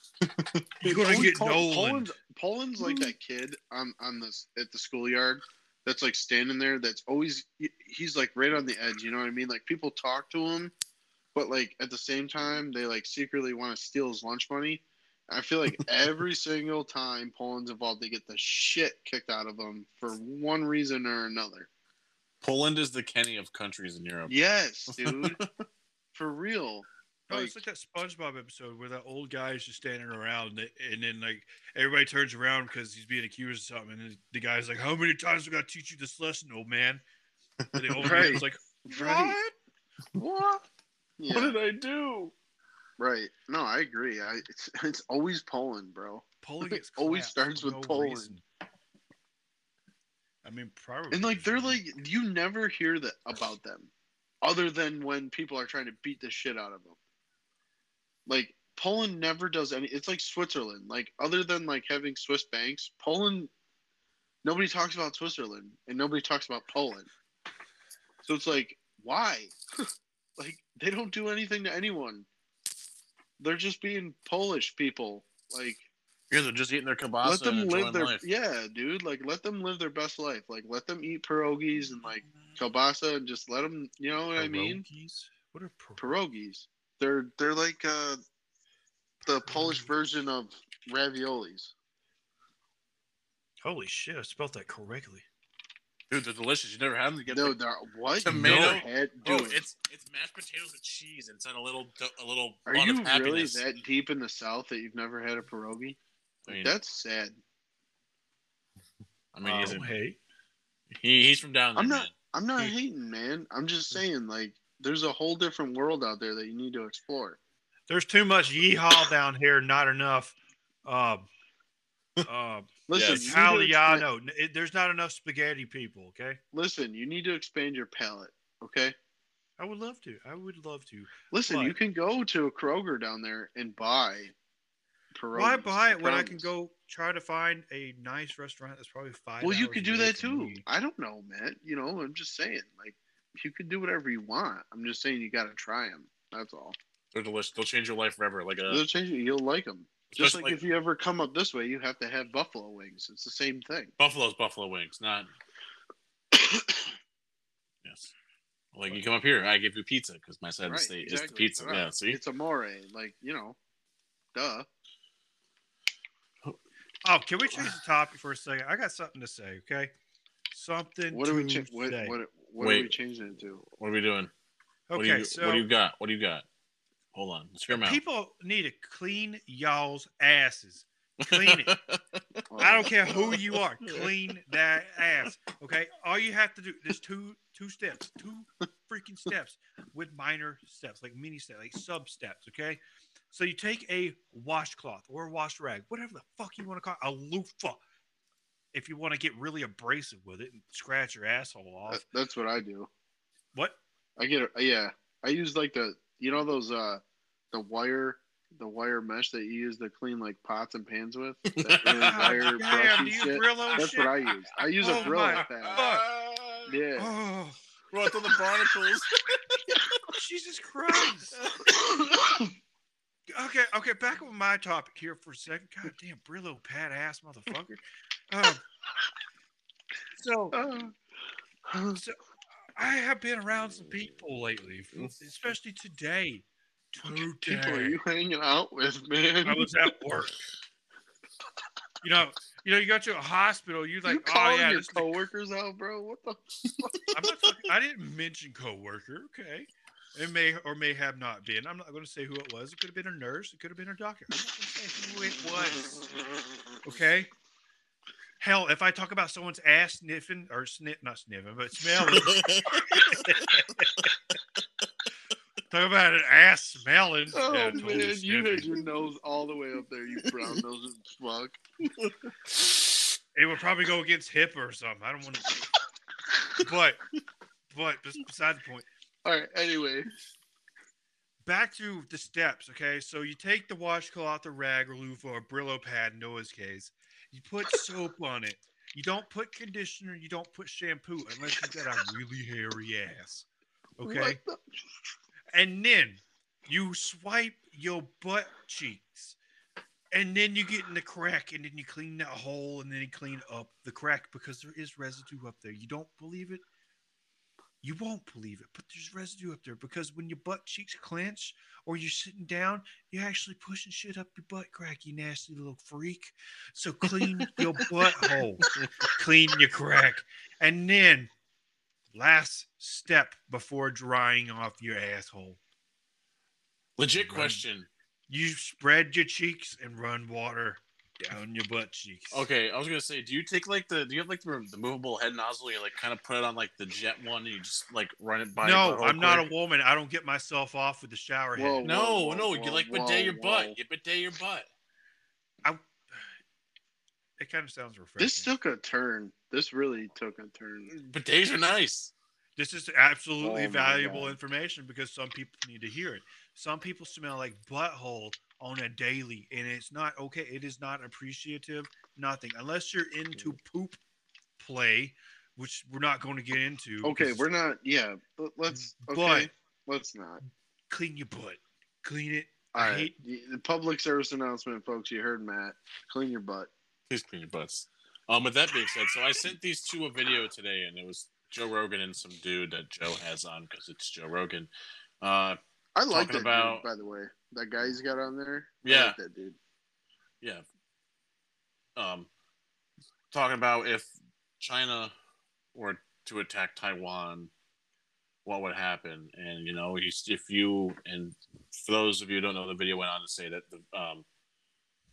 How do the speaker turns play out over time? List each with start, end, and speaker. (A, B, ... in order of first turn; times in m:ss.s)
0:00.2-0:00.8 A
0:00.8-0:02.1 B
0:00.8-0:10.7 C
0:11.4-0:21.7 C
0:22.4-0:24.3 A
0:24.3-0:25.4 C
0:24.9-0:25.4 A
0:26.1-0:27.6 C
0:27.3-0:37.0 B
0:37.7-0:38.4 A
0:37.8-0:39.5 B
0:38.0-0:39.4 C
0:40.2-0:40.7 C
0:41.2-0:41.6 C
0:41.3-0:42.3 A
0:43.0-0:48.3 C
0:46.4-0:48.4 B
0:50.4-0:51.8 B
0:51.1-0:53.9 C
0:54.4-0:57.0 C
0:58.3-1:03.5 C
1:04.4-1:07.1 C
1:08.2-1:09.6 C
1:10.4-1:12.3 C
1:13.4-1:15.8 C
1:16.3-1:18.2 A
1:17.2-1:24.8 C
1:24.3-1:26.1 B
1:26.0-1:28.2 C
1:29.3-1:31.7 C
1:29.5-1:29.9 B
1:33.6-1:35.2 B
1:36.1-1:37.6 A
1:37.3-1:39.6 C
1:38.2-1:43.6 A
1:38.3-1:38.8 B
1:42.7-1:46.0 C
1:46.5-1:46.8 A
1:46.5-1:47.4 C
1:49.3-1:49.9 A
1:49.5-1:50.2 B
1:50.9-1:52.1 A
1:51.8-1:57.4 C
1:57.9-2:01.3 B
2:02.3-2:06.4 B
2:02.9-2:04.0 C
2:02.9-2:03.3 A
2:06.5-2:09.0 C
2:09.6-2:11.8 B
2:11.3-2:14.3 C
2:15.1-2:16.5 C
2:15.4-2:20.6 B
2:19.4-2:26.8 C
2:27.1-2:28.8 A
2:28.7-2:33.9 C
2:30.1-2:30.6 A
2:34.0-2:35.3 A
2:36.3-2:36.9 C
2:37.8-2:38.1 A
2:38.7-2:42.2 A
2:40.7-2:43.6 C
2:44.3-2:44.7 C
2:47.0-2:49.9 B
2:50.5-2:52.2 B
2:51.1-2:53.6 C
2:52.6-2:52.9 A
2:53.8-2:54.3 A
2:54.9-2:55.7 B
2:55.0-2:56.4 A
2:57.1-2:58.0 A
2:57.7-3:01.8 B
3:01.2-3:02.4 A
3:02.5-3:03.4 C
3:02.6-3:12.8 B
3:03.1-3:04.1 A
3:13.3-3:17.8 B
3:18.7-3:22.0 B
3:21.9-3:22.9 C
3:24.2-3:35.8 C
3:31.5-3:33.1 A
3:32.0-3:34.2 B
3:33.7-3:36.7 A
3:34.8-3:36.0 B
3:36.7-3:37.1 C
3:37.0-3:37.6 B
3:37.9-3:39.9 A
3:40.1-3:41.4 B
3:41.4-3:41.7 A
3:41.7-3:42.5 C
3:43.3-3:48.6 B
3:50.2-3:50.6 B
3:50.5-3:51.0 C
3:51.7-3:52.0 C
3:52.8-3:58.0 B
3:57.1-3:59.7 C
3:59.4-4:00.4 B
4:02.0-4:05.1 B
4:04.1-4:07.0 C
4:06.8-4:07.1 A
4:07.1-4:16.1 B
4:16.8-4:17.3 B
4:18.4-4:24.1 B
4:22.0-4:23.7 A
4:25.7-4:28.8 B
4:27.3-4:31.6 C
4:30.2-4:30.5 A
4:32.0-4:32.6 A
4:33.4-4:35.7 B
4:36.6-4:37.0 B
4:37.7-4:38.9 B
4:39.2-4:40.1 C
4:41.4-4:53.5 B
4:54.0-4:54.4 B
4:54.0-4:54.6 C
4:55.5-4:59.4 B
5:00.1-5:06.6 B
5:07.8-5:21.3 B
5:17.2-5:17.6 A
5:18.8-5:19.1 A
5:22.1-5:25.6 B
5:27.0-5:27.9 A
5:27.2-5:27.6 B
5:28.3-5:32.5 B
5:32.3-5:39.5 A
5:38.6-5:41.8 B
5:41.6-5:43.8 C
5:41.8-5:44.7 A
5:45.6-5:46.2 B
5:47.4-5:48.5 B
5:48.2-5:50.9 C
5:50.9-5:52.1 A
5:52.6-6:04.0 B
5:53.4-5:54.4 C
6:04.6-6:07.4 B
6:07.0-6:10.4 C
6:08.8-6:09.5 B
6:10.9-6:13.1 B
6:12.8-6:16.7 C
6:17.1-6:24.7 A
6:25.2-6:26.9 A
6:26.0-6:29.6 C
6:28.8-6:29.2 A
6:32.0-6:32.3 A
6:33.3-6:35.1 A
6:35.8-6:37.5 A
6:38.4-6:44.2 A